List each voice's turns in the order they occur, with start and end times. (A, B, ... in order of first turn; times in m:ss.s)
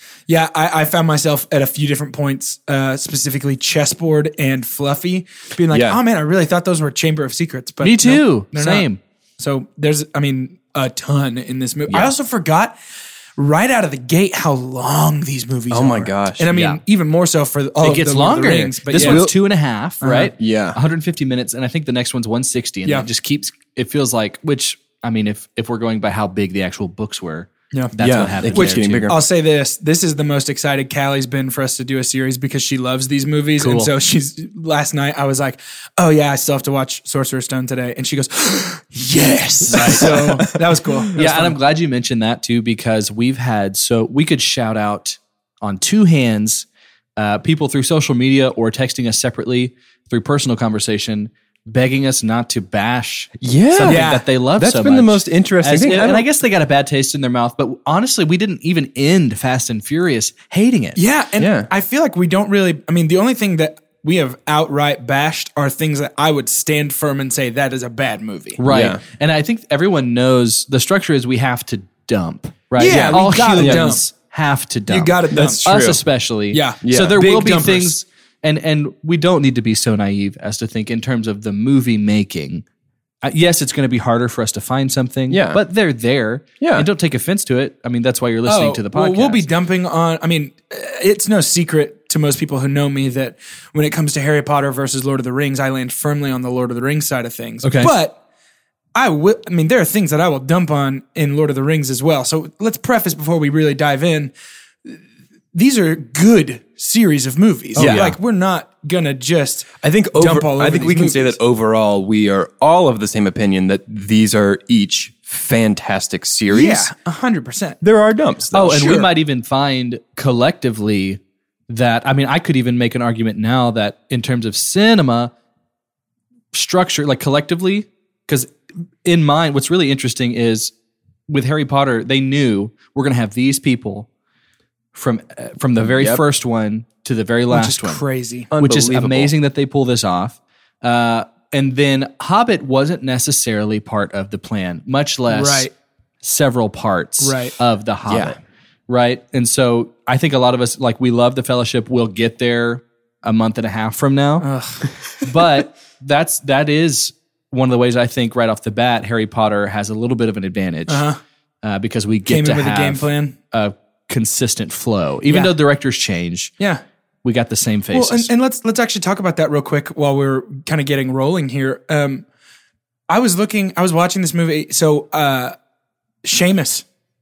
0:00.3-0:08.9 A
0:05.7-0:06.0 B
0:07.8-0:09.0 C
0:09.4-0:12.8 A
0:13.4-0:19.3 A
0:15.7-0:16.5 B
0:16.5-0:16.8 C
0:17.8-0:29.1 C
0:19.0-0:19.3 B
0:20.0-0:20.3 A
0:20.3-0:20.8 B
0:28.0-0:29.2 B
0:28.4-0:41.6 A
0:33.6-0:33.9 C
0:39.7-0:40.4 C
0:39.8-0:40.2 B
0:41.1-1:01.0 C
0:53.4-0:56.3 B
0:53.8-0:54.2 A
1:01.0-1:08.6 A
1:01.4-1:01.7 B
1:08.6-1:22.6 C
1:08.7-1:09.0 B
1:12.8-1:14.1 A
1:12.8-1:13.9 B
1:14.9-1:15.9 A
1:15.3-1:16.0 B
1:16.5-1:17.9 A
1:16.8-1:17.2 B
1:23.2-1:29.5 C
1:25.3-1:25.6 B
1:26.6-1:26.9 B
1:28.4-1:38.2 A
1:37.6-1:37.9 C
1:38.9-1:44.3 A
1:45.5-1:51.3 A
1:47.7-1:48.1 B
1:47.8-1:48.2 C
1:49.8-1:56.9 B
1:56.5-1:57.8 A
1:57.8-1:59.1 B
1:58.5-2:05.3 C
1:58.8-1:59.1 A
2:06.5-2:08.5 C
2:09.0-2:10.7 C
2:11.3-2:14.1 C
2:14.9-2:18.0 C
2:15.8-2:16.2 B
2:17.5-2:18.5 A
2:18.5-2:19.3 B
2:18.6-2:25.7 C
2:25.3-2:25.7 A
2:26.2-2:34.5 C
2:27.2-2:27.6 A
2:28.1-2:28.4 B
2:34.4-2:34.9 A
2:35.2-2:41.0 C
2:40.9-2:41.2 A
2:41.6-2:46.5 C
2:42.2-2:43.3 A
2:45.3-2:45.5 A
2:47.2-2:48.3 C
2:47.9-2:52.2 A
2:53.1-2:55.5 A
2:56.2-2:56.8 A